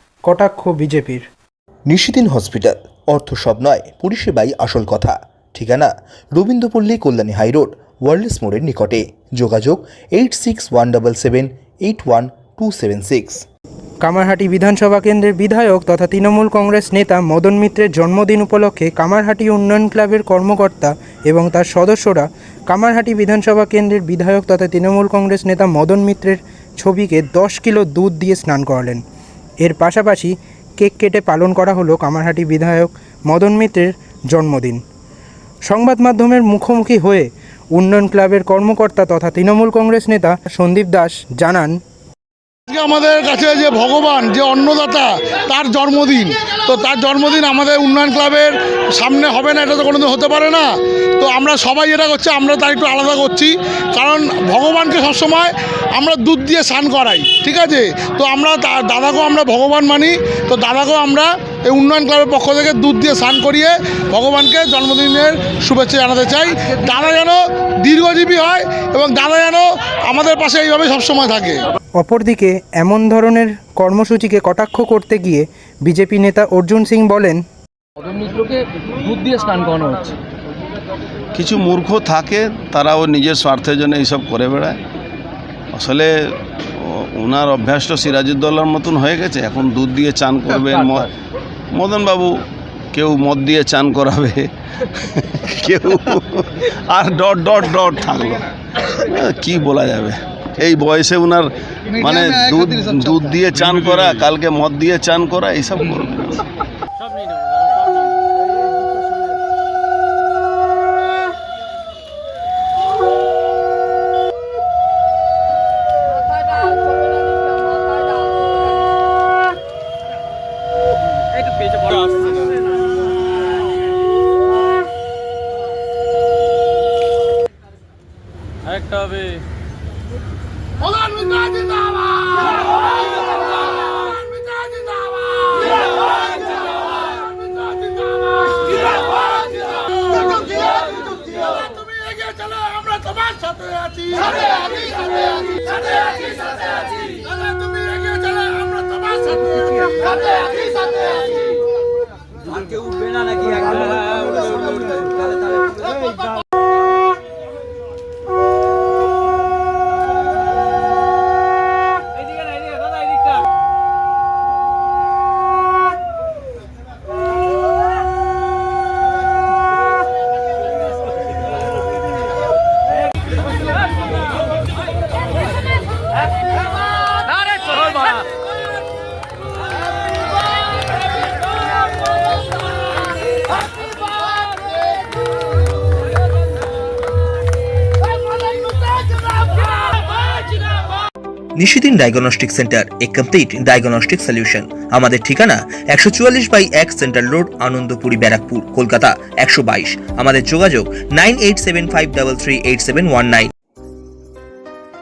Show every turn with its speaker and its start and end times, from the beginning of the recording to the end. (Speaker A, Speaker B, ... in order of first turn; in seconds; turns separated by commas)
Speaker A: 0.3-1.3, Speaker B: 1.9-13.4, Speaker A: 14.0-29.0, Speaker A: 29.6-34.8, Speaker A: 35.7-41.8, Speaker C: 42.7-71.7, Speaker A: 72.0-77.4, Speaker D: 78.0-80.1, Speaker E: 81.3-84.8, Speaker E: 85.8-91.1, Speaker E: 91.7-92.4, Speaker E: 92.9-106.5, Speaker C: 128.8-129.2, Speaker C: 130.8-132.5, Speaker C: 133.7-135.9, Speaker C: 137.0-150.5, Speaker B: 191.6-203.5